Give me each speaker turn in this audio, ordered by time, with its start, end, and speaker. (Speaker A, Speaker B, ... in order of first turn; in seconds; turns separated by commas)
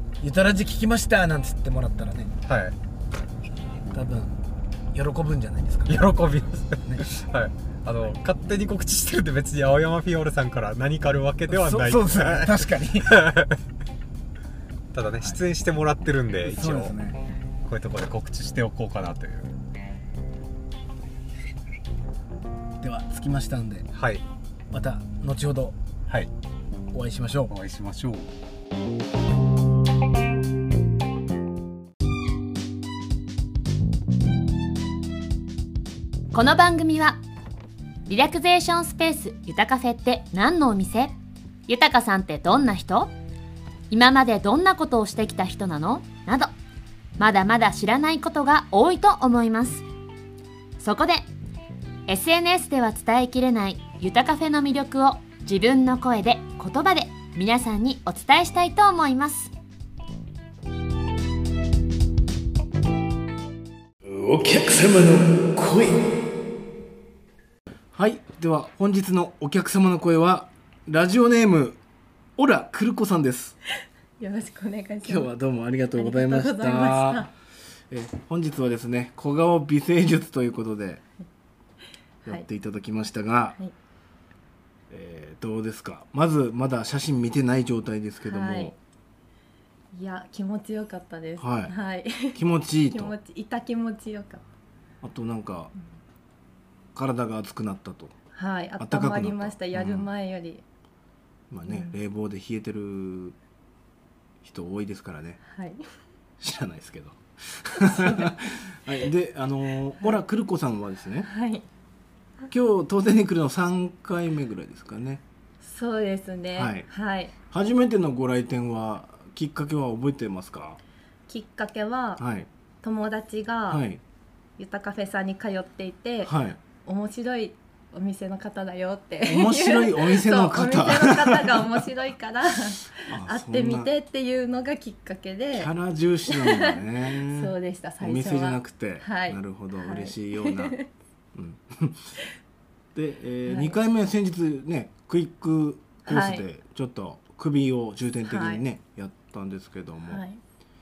Speaker A: 0.2-2.3, Speaker B: 2.4-2.8, Speaker A: 3.9-4.4, Speaker A: 4.9-6.0, Speaker B: 5.9-13.6, Speaker A: 11.5-13.3, Speaker B: 14.9-16.9, Speaker A: 16.4-17.3, Speaker B: 17.6-19.5, Speaker A: 22.8-23.9, Speaker B: 23.9-24.2, Speaker A: 24.7-25.8, Speaker A: 26.9-27.5, Speaker B: 27.5-28.3, Speaker C: 36.3-37.2, Speaker C: 38.1-41.1, Speaker C: 41.7-43.1, Speaker C: 43.9-46.5, Speaker C: 47.2-49.8, Speaker C: 50.8-51.3, Speaker C: 52.1-59.5, Speaker A: 64.0-66.2, Speaker A: 67.9-71.8, Speaker A: 72.4-73.5, Speaker D: 74.2-75.3, Speaker A: 75.0-77.3, Speaker D: 75.9-77.3, Speaker A: 77.9-81.0, Speaker A: 82.2-83.6, Speaker A: 84.9-88.7, Speaker D: 88.2-88.7, Speaker D: 89.9-94.4, Speaker A: 91.4-91.7, Speaker A: 92.3-93.1, Speaker A: 95.0-95.7, Speaker A: 96.9-98.1, Speaker D: 98.3-100.6, Speaker A: 98.8-100.1, Speaker A: 101.5-103.3, Speaker D: 101.7-101.9, Speaker A: 104.4-105.4, Speaker D: 105.5-105.8, Speaker A: 106.4-111.3, Speaker D: 107.8-108.3, Speaker D: 111.2-111.7, Speaker A: 112.5-115.2, Speaker D: 115.6-117.3, Speaker A: 116.5-116.9, Speaker A: 117.5-120.8, Speaker D: 121.3-122.2, Speaker A: 122.2-122.5, Speaker D: 122.8-123.8, Speaker A: 123.7-124.0, Speaker D: 124.6-135.7, Speaker A: 126.2-126.6, Speaker A: 129.2-131.9, Speaker A: 133.0-133.9, Speaker A: 135.5-140.8, Speaker D: 136.3-140.9, Speaker A: 141.3-142.1, Speaker A: 142.9-150.2, Speaker D: 143.4-143.8, Speaker D: 146.1-146.4, Speaker D: 148.2-148.6, Speaker D: 150.1-150.4